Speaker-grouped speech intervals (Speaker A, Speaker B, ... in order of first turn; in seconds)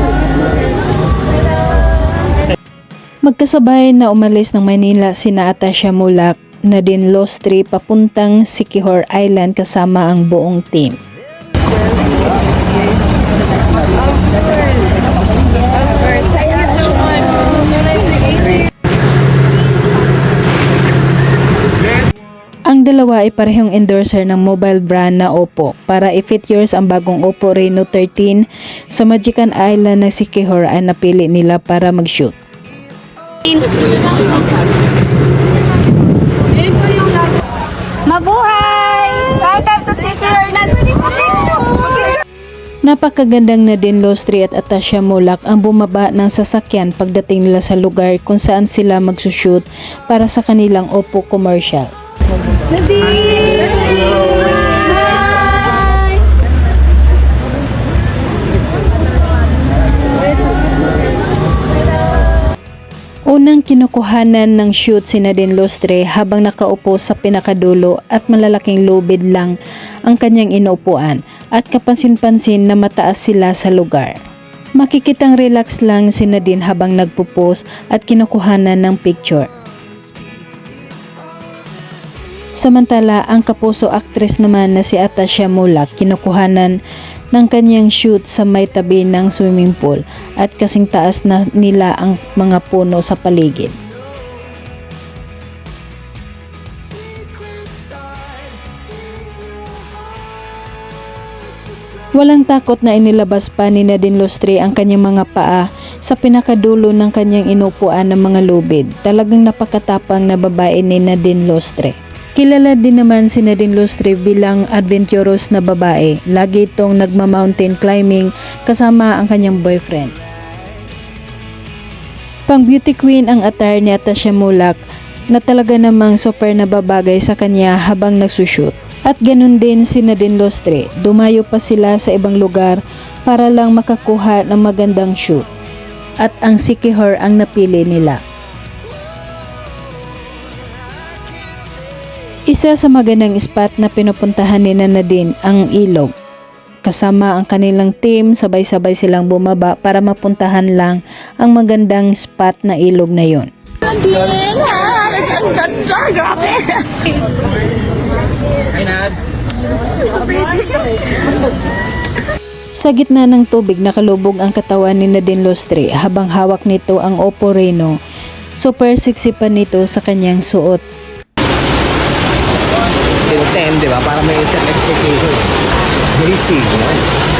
Speaker A: 3.2-11.0, 22.7-32.4, 42.8-51.9, 63.3-69.5, 70.1-74.2, 74.8-79.5, 82.6-86.8, 87.3-93.8, 102.2-120.1, 122.5-124.8, 125.3-135.5, 136.2-138.2, 142.5-146.1, 146.8-153.5, 162.8-168.0, 168.6-170.8
Speaker B: 16.0-17.6, 33.5-34.4, 36.7-37.3, 38.0-42.2, 52.7-56.1, 153.9-156.8
Speaker C: 173.2-175.4, 176.1-177.0